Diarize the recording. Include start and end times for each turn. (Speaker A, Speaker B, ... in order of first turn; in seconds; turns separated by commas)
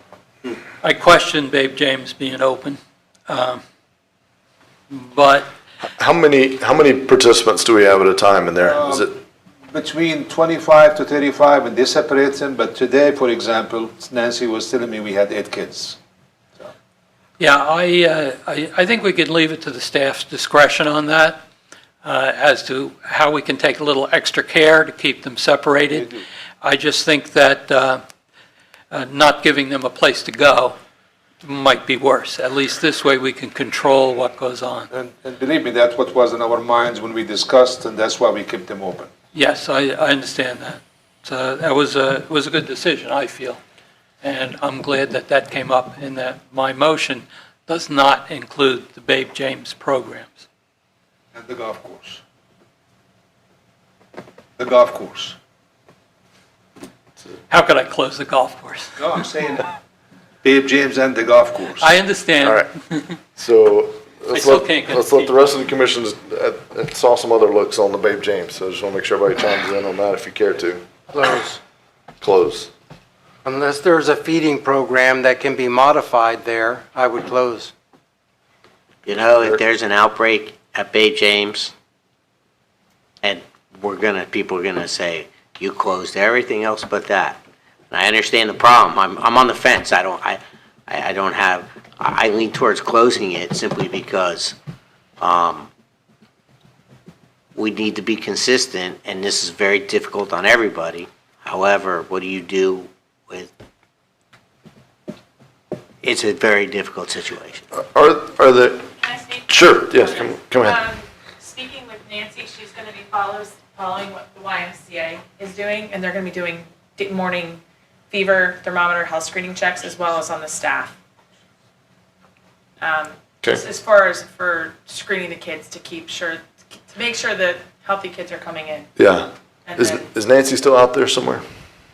Speaker A: 0.8-3.6, Speaker A: 4.9-5.5, Speaker B: 6.0-9.1, Speaker C: 8.6-9.1, Speaker C: 9.7-16.0, Speaker A: 17.4-21.4, Speaker A: 22.0-28.0, Speaker C: 25.9-26.2, Speaker A: 28.9-30.8, Speaker A: 31.4-34.9, Speaker C: 34.9-39.1, Speaker A: 39.3-43.6, Speaker A: 44.2-50.5, Speaker C: 51.3-52.2, Speaker C: 54.6-55.4, Speaker A: 57.5-59.0, Speaker C: 59.0-59.7, Speaker C: 60.4-62.0, Speaker A: 61.8-63.2, Speaker B: 62.4-62.7, Speaker B: 63.4-70.8, Speaker A: 64.3-65.3, Speaker D: 71.1-71.6, Speaker B: 72.2-72.7, Speaker D: 73.5-77.7, Speaker E: 79.1-81.7, Speaker E: 83.2-94.6, Speaker E: 95.2-95.7, Speaker E: 97.6-103.5, Speaker E: 106.0-107.7, Speaker B: 107.8-108.9, Speaker F: 109.0-121.0, Speaker B: 109.5-110.8, Speaker F: 122.8-128.9, Speaker B: 129.0-131.4, Speaker F: 129.7-130.1